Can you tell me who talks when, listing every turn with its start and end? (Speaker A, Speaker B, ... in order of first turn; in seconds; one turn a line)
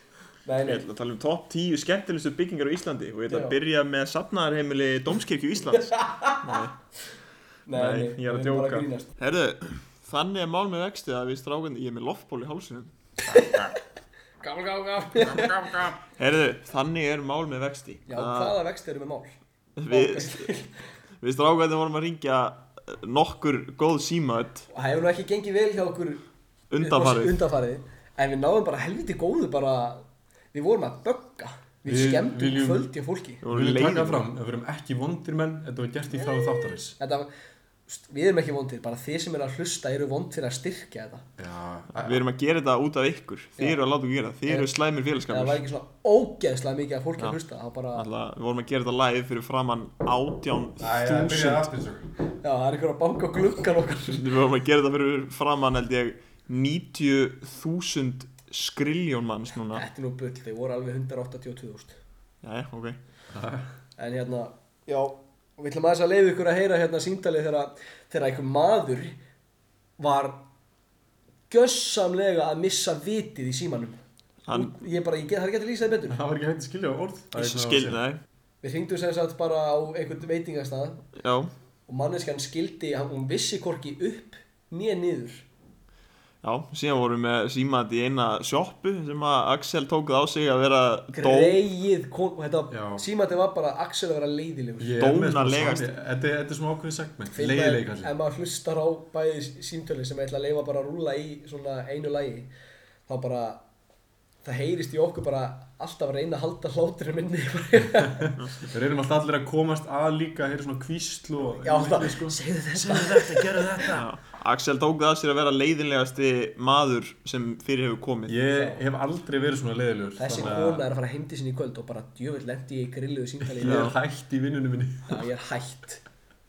Speaker A: 0.4-0.8
Speaker B: 0.7-6.7
Speaker A: 3.3-3.6
Speaker A: 5.8-6.4
Speaker A: 7.7-9.1
Speaker B: 7.7-13.4
Speaker A: 13.3-13.8
Speaker A: 14.4-15.9
Speaker B: 16.1-18.6
Speaker A: 18.1-19.4
Speaker B: 19.8-20.5
Speaker A: 19.9-20.7
Speaker B: 21.2-24.7
Speaker A: 24.7-26.2
Speaker B: 26.7-27.4
Speaker A: 26.8-33.4
Speaker C: 31.9-32.9
Speaker B: 33.4-34.3
Speaker C: 33.5-37.0
Speaker A: 37.0-37.3
Speaker A: 37.9-41.3
Speaker C: 41.4-42.2
Speaker B: 42.0-45.6
Speaker A: 45.3-48.0
Speaker B: 47.9-51.7
Speaker C: 50.8-52.1
Speaker A: 52.4-54.2
Speaker B: 54.1-59.9
Speaker A: 59.7-62.0
Speaker B: 62.4-63.0
Speaker C: 63.3-63.7
Speaker A: 64.0-69.2
Speaker A: 70.0-70.4
Speaker A: 71.5-74.0
Speaker B: 74.5-74.8
Speaker A: 74.5-76.2
Speaker C: 76.1-78.0
Speaker B: 77.3-78.2
Speaker A: 78.6-81.1
Speaker B: 81.2-81.5
Speaker A: 81.9-85.5
Speaker B: 86.4-91.6
Speaker A: 91.1-95.0
Speaker C: 92.7-93.0
Speaker C: 94.8-98.1
Speaker B: 95.0-95.9
Speaker A: 97.3-102.5
Speaker A: 103.1-103.6
Speaker A: 104.4-108.3
Speaker C: 108.2-114.0
Speaker A: 111.6-114.0
Speaker B: 114.0-118.4
Speaker C: 118.3-120.9
Speaker A: 118.5-118.8
Speaker A: 120.2-123.9
Speaker C: 123.4-125.2
Speaker B: 123.6-124.0
Speaker A: 125.1-126.0